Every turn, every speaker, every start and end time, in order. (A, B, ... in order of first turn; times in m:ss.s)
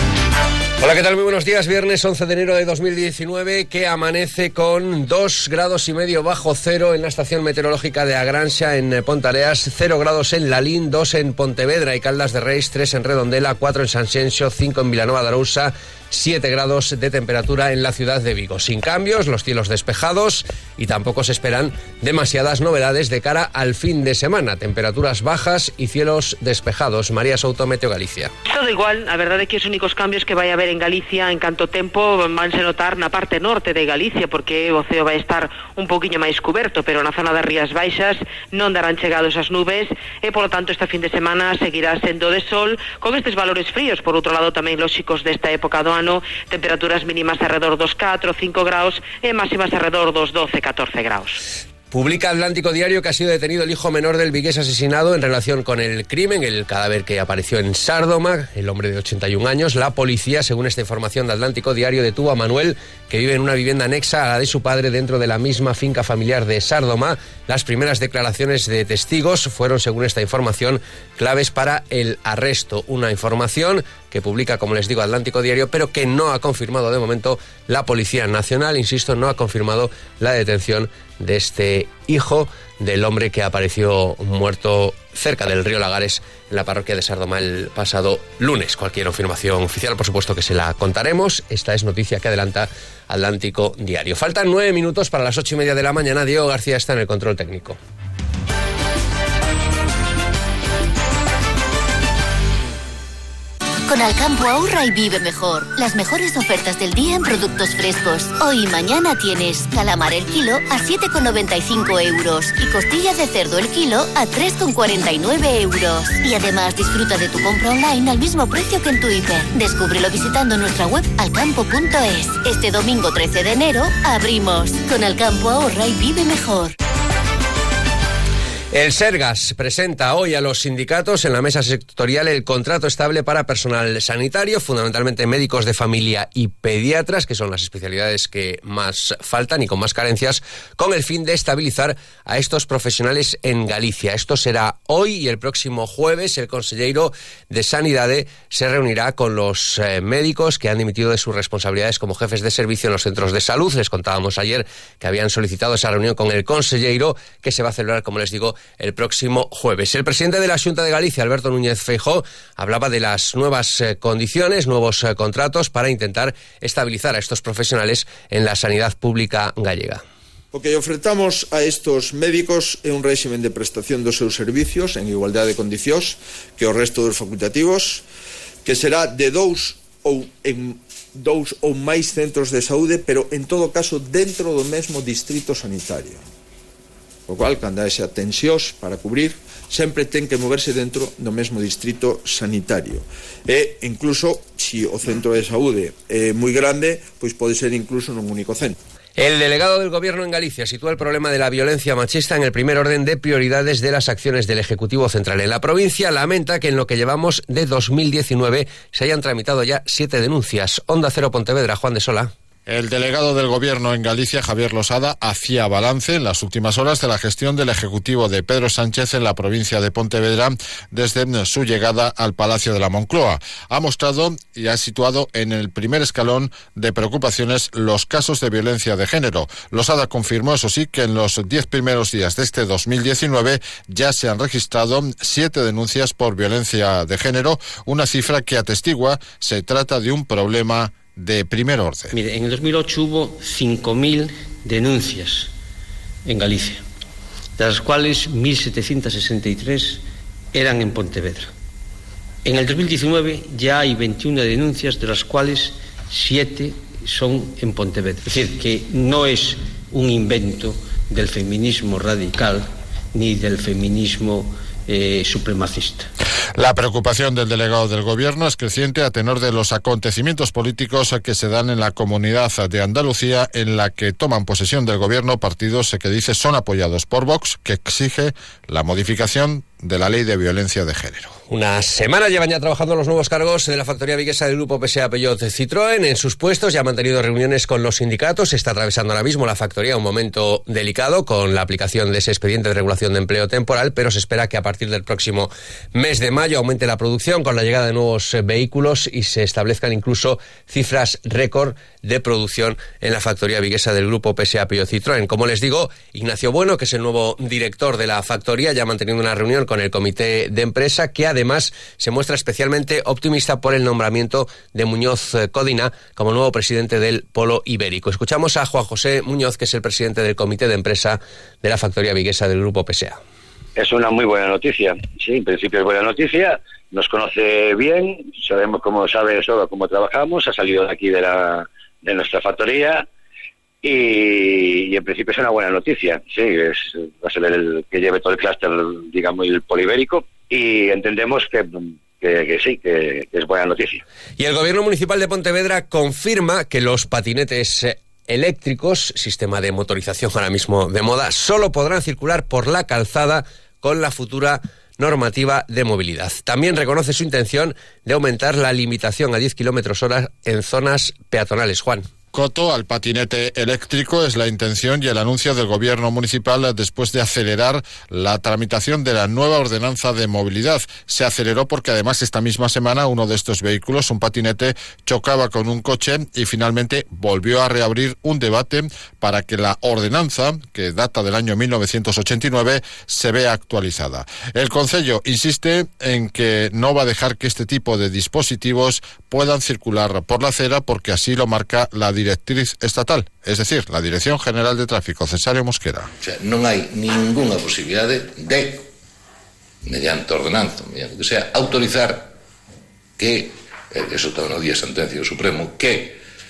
0:00.8-0:28.3 A
0:28.5-0:51.4 B
0:51.9-1:37.8 A
1:43.9-2:06.8 C
2:08.7-2:50.0 A
2:50.5-2:58.0 D
2:58.6-3:06.2 D
3:07.3-3:18.8 D
3:19.2-3:32.3 A
3:32.7-4:02.2 E
4:02.1-4:05.5 F
4:06.3-4:06.8 F
4:07.6-4:10.0 F
4:10.5-4:11.5 F
4:12.4-4:26.1 F
4:26.6-4:41.3 E
4:41.5-5:23.2 A
5:23.8-5:33.1 G
5:33.8-5:44.0 G
5:44.4-6:02.0 A
6:02.3-6:36.1 E
6:36.2-6:38.8 H
6:39.8-6:42.3 H
6:43.2-6:46.2 H